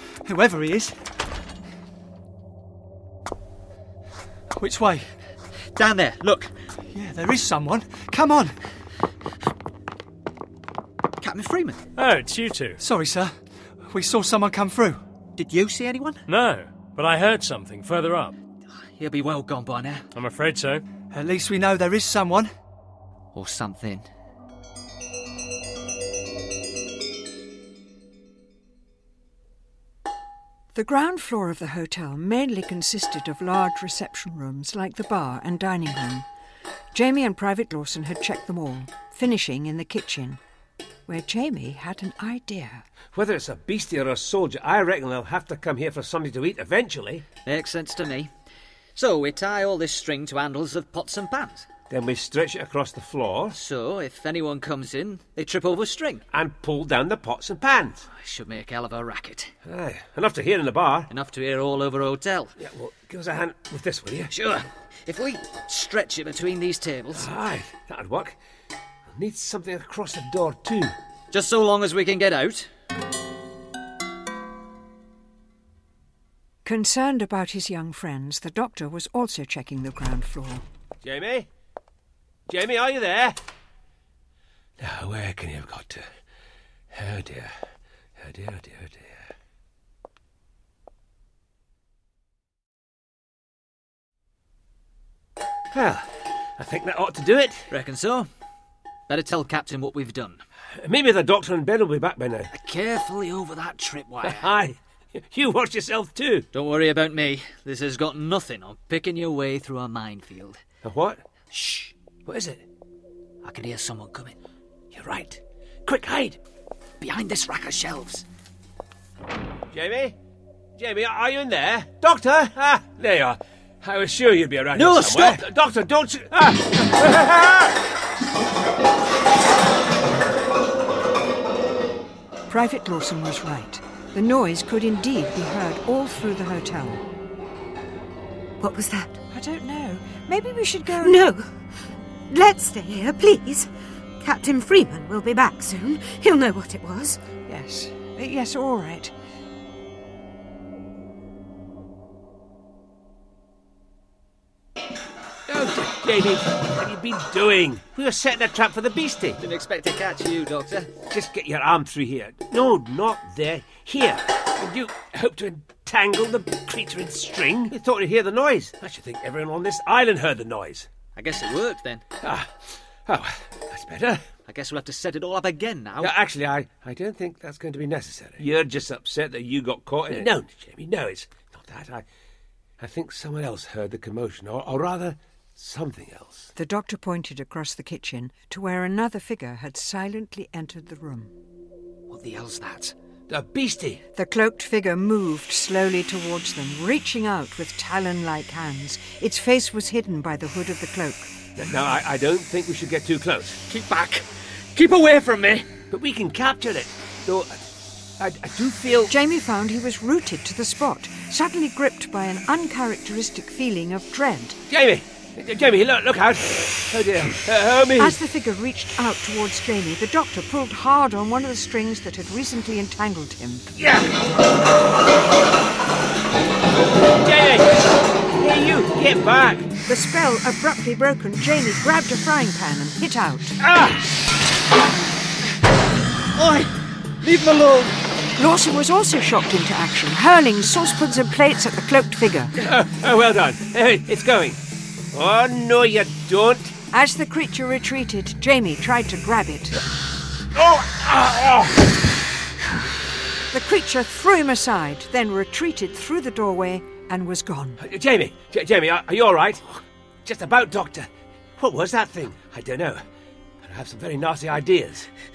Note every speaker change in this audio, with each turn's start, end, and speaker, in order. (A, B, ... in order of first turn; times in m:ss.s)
0:00.2-0:00.9 A
0:04.6-0:05.1 A
0:05.8-0:06.5 B
0:06.9-0:08.5 A
0:11.2-0:11.8 B
0:12.0-0:12.8 C
0:12.8-0:13.3 A
0:13.9-0:15.0 A
0:15.4-0:16.2 B
0:16.3-0:18.3 C
0:19.0-0:20.1 B
0:20.1-0:20.8 C
0:21.1-0:22.5 A
0:23.3-0:24.1 B
0:30.7-0:36.2 D
0:36.9-0:40.4 D
0:41.1-0:42.8 D
0:43.1-0:47.2 E
0:47.4-0:48.3 B
0:49.0-0:51.6 B
0:51.9-0:53.6 E
0:53.5-0:56.2 B
0:56.3-0:58.1 E
0:58.1-0:59.5 B
0:59.6-1:01.1 E
1:01.1-1:02.5 B
1:02.6-1:04.3 E
1:04.3-1:07.3 B
1:07.1-1:08.4 E
1:09.1-1:10.9 E
1:11.3-1:12.7 B
1:16.6-1:20.6 D
1:21.0-1:21.5 E
1:22.5-1:23.4 E
1:24.8-1:26.1 E
1:26.9-1:27.5 E
1:28.2-1:29.3 E
1:35.7-1:37.7 E
1:37.7-1:38.3 B
1:39.1-1:40.4 B
1:40.8-1:42.5 E
1:42.5-1:44.5 B
1:44.2-1:46.5 E
1:46.5-1:50.6 B
1:50.8-1:51.2 E
1:51.5-1:51.9 B
1:52.2-1:52.6 E
1:53.4-1:54.4 B
1:54.9-1:56.4 E
1:57.0-1:58.2 B
1:59.7-2:00.2 E
2:00.8-2:07.8 E
2:04.7-2:05.4 B
2:12.5-2:17.0 D
2:18.6-2:19.2 F
2:19.3-2:21.2 D
2:21.0-2:21.5 F
2:22.3-2:23.7 F
2:24.2-2:27.2 F
2:27.5-2:29.1 D
2:35.5-2:39.4 E
2:39.4-2:40.9 B
2:41.1-2:50.9 E
2:51.1-2:52.0 B
2:52.2-2:54.2 E
2:54.5-2:56.1 B
2:56.0-3:02.0 E
3:02.8-3:06.5 E
3:06.6-3:11.3 D
3:12.1-3:12.9 B
3:13.3-3:14.0 E
3:14.1-3:21.3 D
3:21.6-3:23.6 E
3:23.7-3:25.7 B
3:25.9-3:27.6 E
3:28.2-3:29.1 E
3:29.1-3:34.6 D
3:34.7-3:38.2 E
3:38.0-3:43.7 D
3:43.7-3:44.2 E
3:47.0-3:49.7 E
3:49.8-3:53.6 D
3:53.6-3:54.0 E
3:56.3-3:58.0 B
3:58.4-4:02.5 D
4:02.6-4:04.6 E
4:05.1-4:06.7 E
4:06.9-4:09.8 D
4:10.5-4:11.9 E
4:13.5-4:17.8 D
4:17.8-4:23.0 E
4:23.6-4:25.1 E